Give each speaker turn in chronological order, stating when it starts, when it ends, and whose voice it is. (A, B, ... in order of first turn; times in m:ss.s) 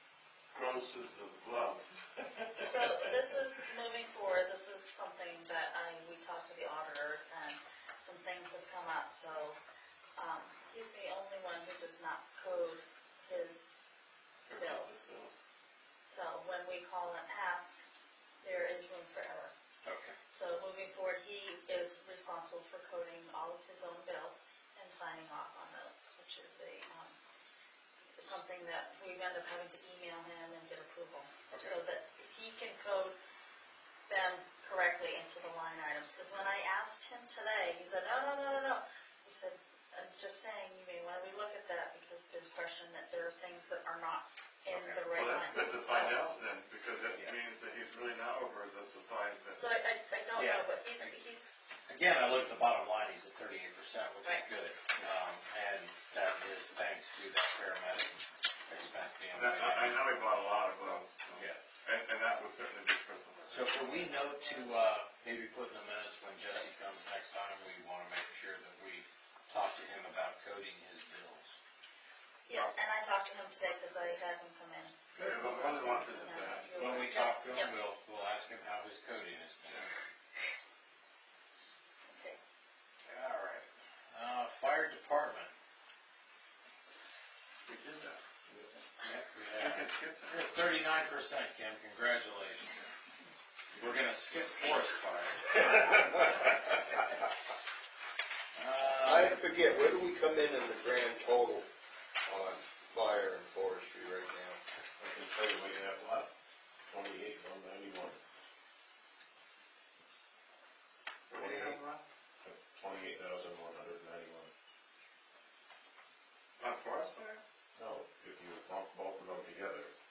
0:00.5-0:03.4 A
0:02.6-0:09.6 B
0:10.2-0:13.8 B
0:14.5-0:15.3 A
0:14.6-0:15.0 B
0:16.0-0:17.8 B
0:18.4-0:19.5 B
0:19.8-0:20.2 C
0:20.3-0:27.2 B
0:28.2-0:33.2 B
0:31.5-0:31.8 C
0:34.1-0:46.2 B
0:44.7-0:45.0 C
0:45.1-0:49.6 A
0:49.5-0:51.6 B
0:50.4-0:51.2 C
0:51.9-1:00.0 C
0:59.3-1:03.7 A
1:01.4-1:01.6 C
1:03.5-1:11.6 C
1:12.5-1:17.7 B
1:15.2-1:16.7 A
1:15.2-1:15.5 C
1:16.7-1:19.8 C
1:22.1-1:22.4 B
1:23.0-1:25.5 C
1:27.7-1:28.2 A
1:29.0-1:33.0 C
1:29.6-1:30.5 A
1:33.8-1:36.4 C
1:38.6-1:39.4 C
1:39.0-1:41.7 D
1:42.3-1:44.6 D
1:45.0-1:46.3 E
1:46.9-1:48.2 E
1:51.3-1:52.0 A
1:51.4-1:51.8 D
1:52.4-1:54.5 E
1:56.6-1:57.4 A
1:57.8-1:59.9 E